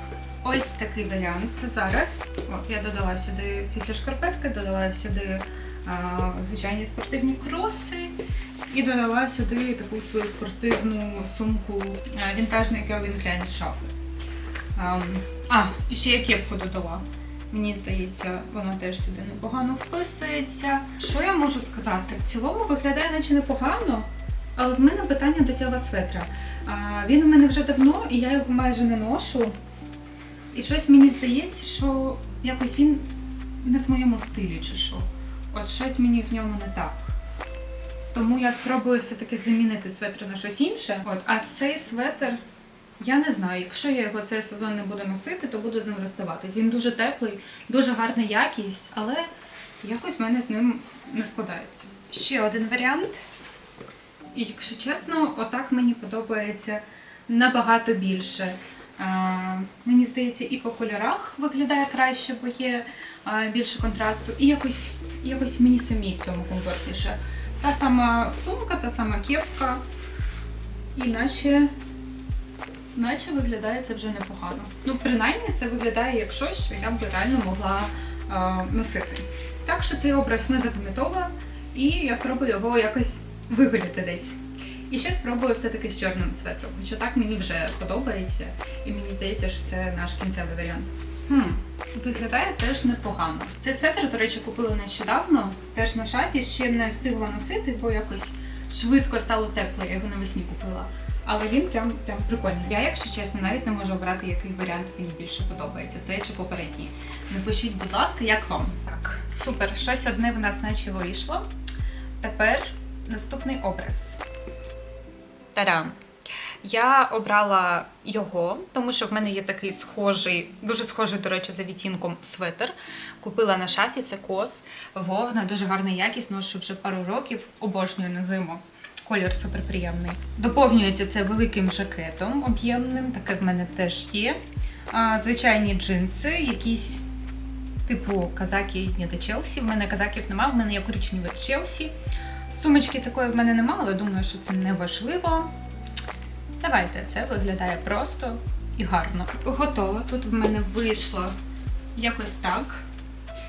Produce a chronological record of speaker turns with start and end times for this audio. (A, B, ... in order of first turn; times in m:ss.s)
0:00.4-0:08.2 A
0:08.7-0:13.9 A
0:14.8-0:29.6 A
0:30.5-0:33.1 A
0:33.6-0:37.2 A
0:38.1-0:42.4 A
0:43.0-0:49.3 A
0:49.8-0:53.2 A
0:54.3-1:09.8 A
1:11.0-1:11.7 A
1:13.0-1:24.4 A
1:24.9-1:51.4 A
1:52.2-1:54.2 A
1:55.6-1:56.0 A
1:56.6-2:14.4 A
2:14.9-2:17.0 A
2:17.9-2:21.9 A
2:22.5-2:25.5 A
2:26.6-2:31.3 A
2:32.0-2:32.8 A